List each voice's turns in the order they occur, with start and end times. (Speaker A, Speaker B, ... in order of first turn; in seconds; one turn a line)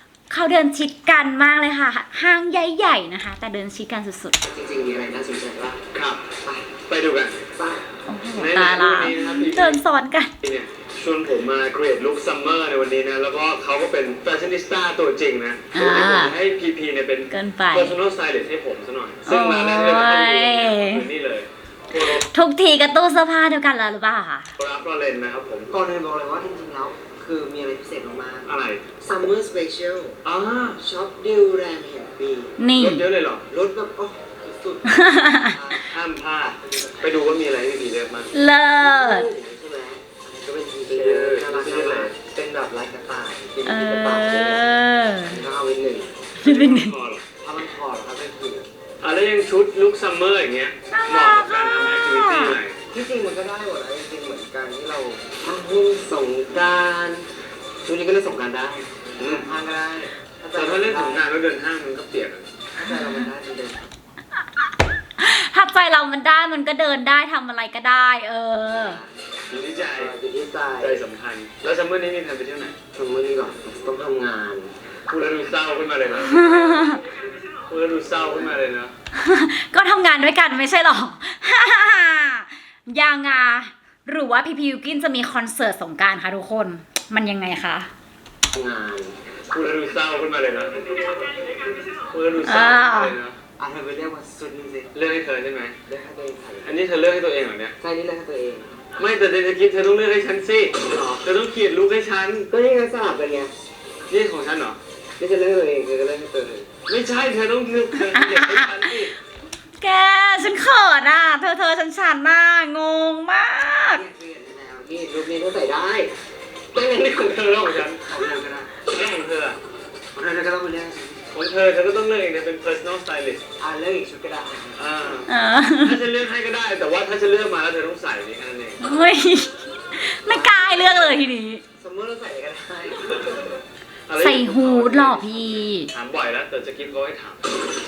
Speaker A: 0.3-4.4
Speaker B: 4.4-5.8
Speaker C: 5.9-6.3
Speaker B: 6.4-6.7
Speaker C: 6.9-7.4
Speaker B: 7.5-7.8
Speaker A: 8.1-10.3
Speaker C: 8.3-9.8
Speaker C: 10.4-22.2
Speaker A: 15.7-16.4
Speaker A: 17.3-17.9
Speaker A: 19.2-21.1
Speaker A: 21.9-24.5
Speaker C: 24.6-25.7
Speaker B: 25.7-30.2
Speaker C: 28.5-28.8
Speaker C: 30.2-30.8
Speaker B: 30.8-32.5
Speaker A: 32.6-33.1
Speaker C: 32.8-33.4
Speaker B: 33.5-37.3
Speaker A: 34.9-35.6
Speaker C: 35.9-38.3
Speaker A: 38.3-39.3
Speaker B: 38.8-44.6
Speaker C: 40.9-42.1
Speaker A: 43.6-45.4
Speaker B: 45.2-46.2
Speaker A: 46.4-47.0
Speaker C: 46.4-47.2
Speaker B: 47.4-48.7
Speaker C: 49.0-52.8
Speaker A: 50.9-52.6
Speaker B: 52.9-57.3
Speaker B: 57.8-61.3
Speaker C: 59.2-59.4
Speaker C: 60.5-62.5
Speaker B: 62.7-63.9
Speaker A: 65.2-69.0
Speaker B: 68.7-69.1
Speaker C: 69.5-70.1
Speaker B: 69.8-71.0
Speaker C: 70.8-72.7
Speaker B: 72.9-74.7
Speaker C: 75.1-76.6
Speaker A: 76.2-77.0
Speaker C: 77.7-78.9
Speaker A: 79.1-87.9
Speaker B: 88.5-89.2
Speaker C: 89.5-93.4
Speaker A: 92.4-93.2
Speaker B: 93.6-94.9
Speaker C: 94.9-95.8
Speaker B: 95.9-96.7
Speaker C: 96.6-97.8
Speaker B: 97.8-98.7
Speaker C: 99.0-102.5
Speaker B: 102.5-103.5
Speaker C: 104.1-104.8
Speaker B: 105.2-106.7
Speaker C: 106.9-109.1
Speaker A: 108.1-108.9
Speaker A: 109.8-114.0
Speaker B: 113.9-116.1
Speaker B: 116.7-118.9
Speaker C: 117.2-118.0
Speaker C: 118.8-119.6
Speaker B: 120.1-121.2
Speaker C: 121.3-123.4
Speaker B: 123.6-125.1
Speaker C: 124.8-128.8
Speaker A: 125.3-126.0
Speaker A: 128.8-131.6
Speaker B: 130.2-131.2
Speaker B: 131.8-133.6
Speaker C: 134.1-137.4
Speaker A: 134.2-135.9